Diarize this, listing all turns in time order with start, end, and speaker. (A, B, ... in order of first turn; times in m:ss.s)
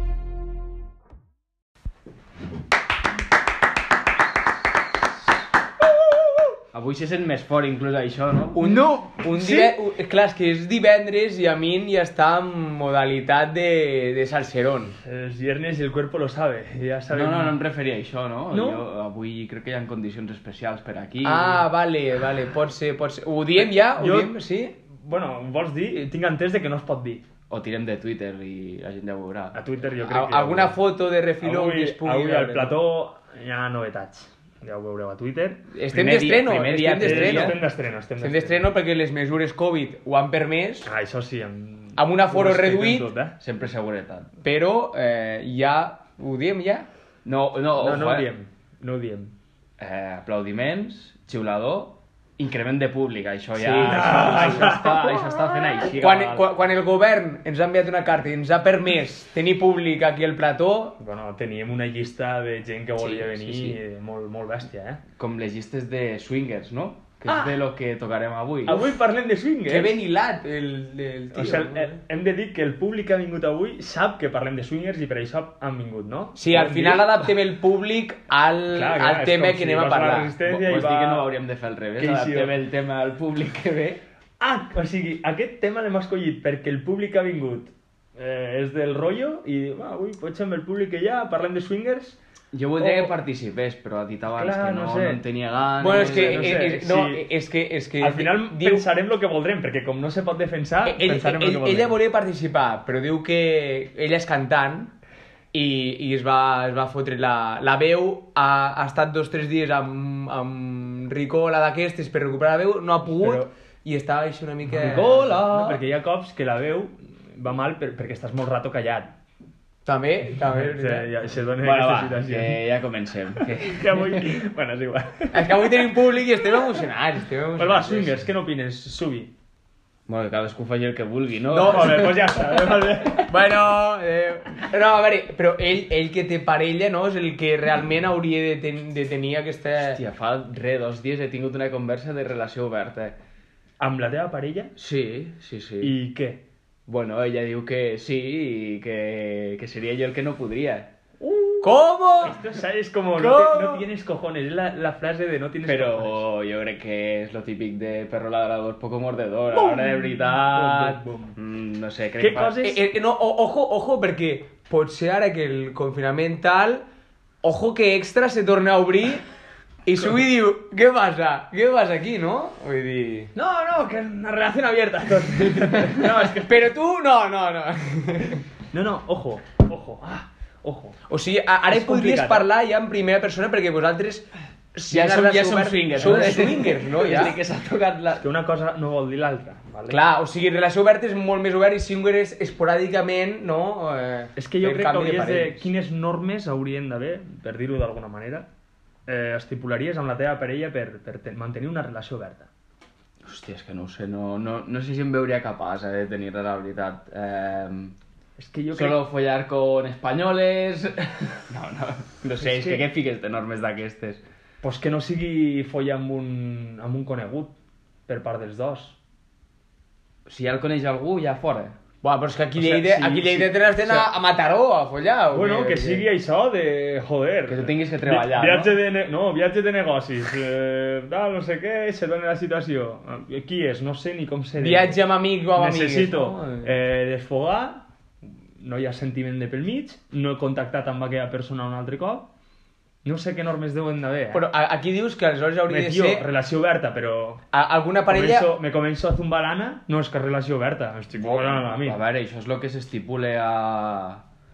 0:06.7-0:08.6 A
0:08.5-0:15.0 B
0:08.6-0:09.8 C
0:15.0-0:17.6 C
0:17.1-0:21.7 A
0:18.5-0:18.8 C
0:21.2-0:24.8 B
0:23.6-0:27.2 C
0:27.5-0:29.6 A
0:29.5-0:30.8 C
0:30.0-0:32.8 B
0:31.4-0:35.6 C
0:35.7-0:37.6 B
0:35.9-0:37.6 A
0:37.0-0:38.7 C
0:38.2-0:40.9 B
0:40.8-0:43.4 C
0:42.0-0:43.1 B
0:43.4-0:44.3 A
0:44.4-0:46.9 B
0:47.2-0:48.3 A
0:47.8-0:49.3 C
0:49.8-0:56.5 A
0:53.6-0:54.8 B
0:53.8-0:55.2 C
0:55.9-1:01.0 B
1:01.0-1:05.0 C
1:03.0-1:03.8 B
1:05.2-1:08.9 A
1:07.3-1:07.6 C
1:08.6-1:10.0 C
1:09.7-1:12.0 B
1:11.3-1:17.3 C
1:16.4-1:20.5 B
1:18.7-1:21.3 C
1:20.5-1:24.0 A
1:22.0-1:22.5 C
1:24.4-1:32.2 C
1:32.5-1:36.7 A
1:32.8-1:33.2 C
1:34.3-1:35.2 C
1:35.8-1:38.8 B
1:35.8-1:37.3 C
1:38.0-1:42.0 C
1:40.8-1:44.9 B
1:45.5-1:55.8 B
1:53.2-1:53.5 C
1:54.7-1:59.2 C
1:59.8-2:01.1 B
2:00.3-2:02.6 C
2:01.6-2:04.3 A
2:03.4-2:06.0 C
2:05.3-2:08.2 B
2:07.6-2:09.3 C
2:10.1-2:12.4 A
2:11.5-2:12.4 B
2:11.6-2:13.4 C
2:13.2-2:20.0 B
2:20.0-2:23.2 A
2:23.8-2:24.7 C
2:24.8-2:26.0 A
2:25.8-2:26.4 C
2:26.9-2:30.9 A
2:31.2-2:36.2 C
2:31.6-2:32.4 B
2:33.2-2:33.8 B
2:35.6-2:42.6 A
2:39.5-2:41.4 C
2:42.2-2:42.8 C
2:42.6-2:46.9 B
2:47.4-2:49.2 B
2:49.9-2:53.3 B
2:53.4-2:56.7 C
2:55.7-2:58.4 B
2:58.7-3:01.0 C
3:01.1-3:07.4 B
3:01.7-3:02.5 C
3:04.9-3:08.3 A
3:08.2-3:10.0 C
3:09.9-3:15.7 B
3:14.4-3:18.5 C
3:19.1-3:22.5 C
3:23.2-3:28.0 A
3:28.4-3:29.0 C
3:28.7-3:34.2 A
3:32.4-3:32.9 C
3:34.6-3:37.5 C
3:38.1-3:39.0 C
3:40.3-3:41.8 A
3:42.0-3:46.0 B
3:42.6-3:44.1 C
3:45.3-3:55.0 C
3:47.5-3:48.8 A
3:54.6-3:56.7 B
3:55.6-3:57.9 C
3:58.6-4:02.3 C
4:03.0-4:04.4 C
4:04.3-4:06.2 B
4:05.7-4:07.4 C
4:07.5-4:08.5 B
4:08.1-4:12.0 C
4:11.2-4:14.2 A